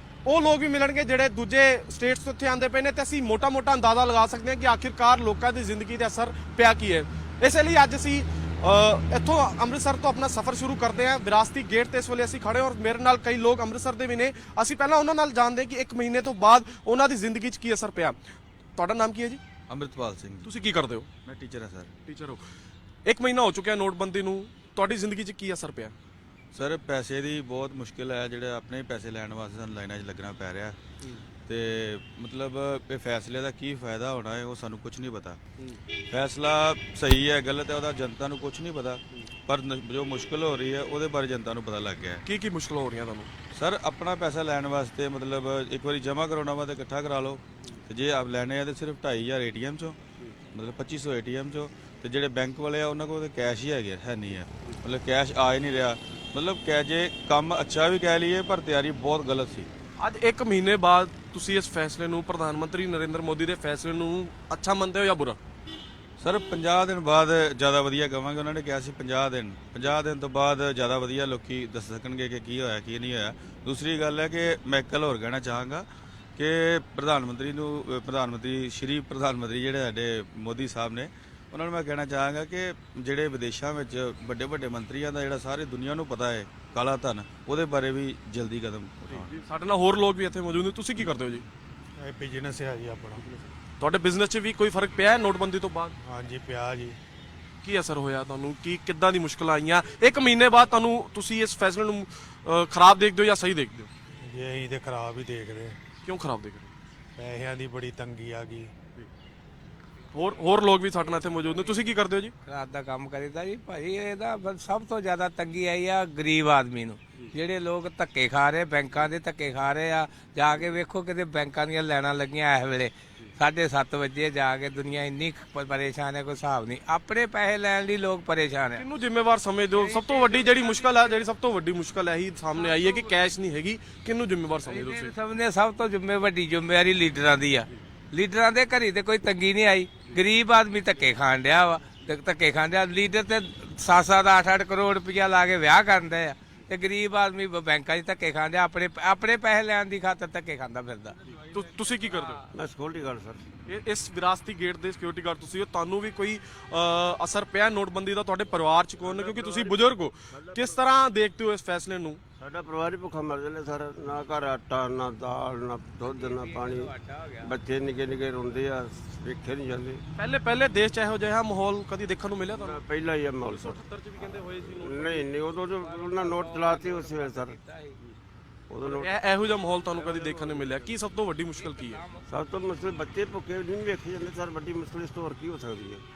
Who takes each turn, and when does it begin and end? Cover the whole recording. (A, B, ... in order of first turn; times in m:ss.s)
0:00.2-0:18.2 A
0:18.8-0:19.4 A
0:19.7-0:20.5 B
0:20.4-0:21.1 A
0:21.2-0:21.9 B
0:22.1-0:22.4 A
0:23.1-0:25.9 A
0:26.5-0:30.8 B
0:31.5-0:35.4 B
0:36.1-0:42.2 B
0:42.2-0:43.3 A
0:43.6-0:50.0 B
0:50.5-0:59.7 B
1:00.0-1:05.4 A
1:06.2-1:29.3 B
1:29.1-1:31.4 A
1:32.0-1:33.3 C
1:33.8-1:35.9 A
1:36.0-1:37.0 C
1:37.6-1:43.9 A
1:44.2-1:45.8 C
1:46.0-1:46.7 A
1:47.2-1:48.7 C
1:50.1-1:52.3 A
1:52.4-2:08.8 D
2:08.8-2:15.1 A
2:09.8-2:11.0 D
2:12.6-2:13.0 D
2:14.6-2:31.2 D
2:31.5-2:32.5 A
2:31.8-2:32.3 D
2:32.5-2:33.4 E
2:33.7-2:42.2 A
2:39.0-2:40.8 E
2:42.4-2:50.0 E
2:46.0-2:47.6 D
2:50.2-2:52.8 A
2:52.5-2:53.8 E
2:53.4-2:56.2 A
2:54.6-2:57.6 E
2:55.9-2:58.0 D
2:58.7-2:59.1 E
2:58.8-3:02.0 A
3:01.6-3:02.3 D
3:02.3-3:06.0 E